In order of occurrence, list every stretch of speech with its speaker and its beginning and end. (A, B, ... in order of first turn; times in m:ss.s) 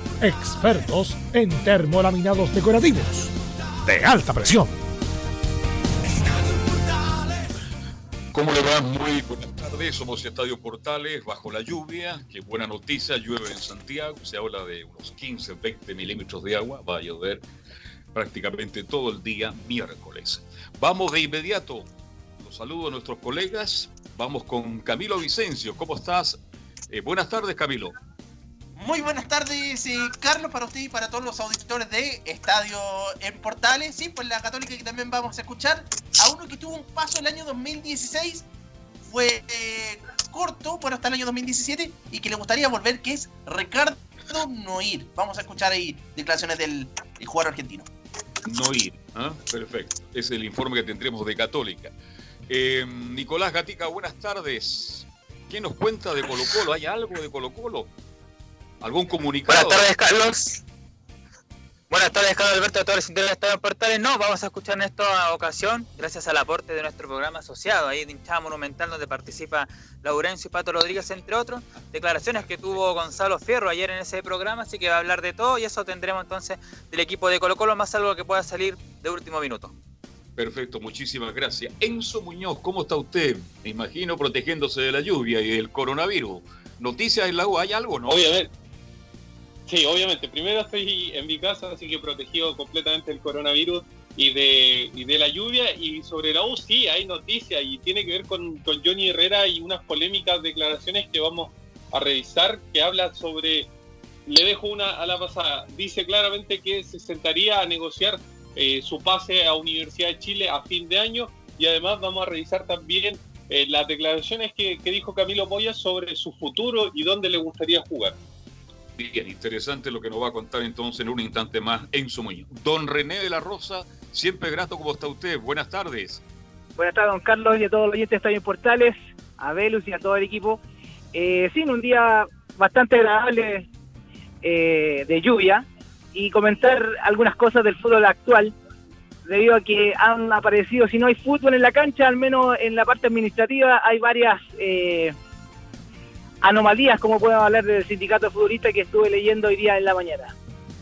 0:00.2-0:04.8 A
0:08.3-0:17.4 B
0:18.1-0:21.9 B
0:22.4-0:28.0 B
0:28.7-0:38.4 C
0:39.0-0:47.9 C
0:48.4-0:51.9 B
0:52.5-0:57.9 B
0:58.8-0:59.8 B
0:59.5-1:00.6 D
1:01.9-1:19.8 D
1:12.1-1:13.1 B
1:20.4-1:28.3 B
1:28.1-1:28.5 E
1:29.7-1:43.7 E
1:44.3-1:58.2 E
1:59.0-2:06.2 B
2:06.8-2:10.6 F
2:11.1-2:13.7 F
2:14.4-2:18.5 F
2:19.2-2:25.1 F
2:26.4-2:30.3 F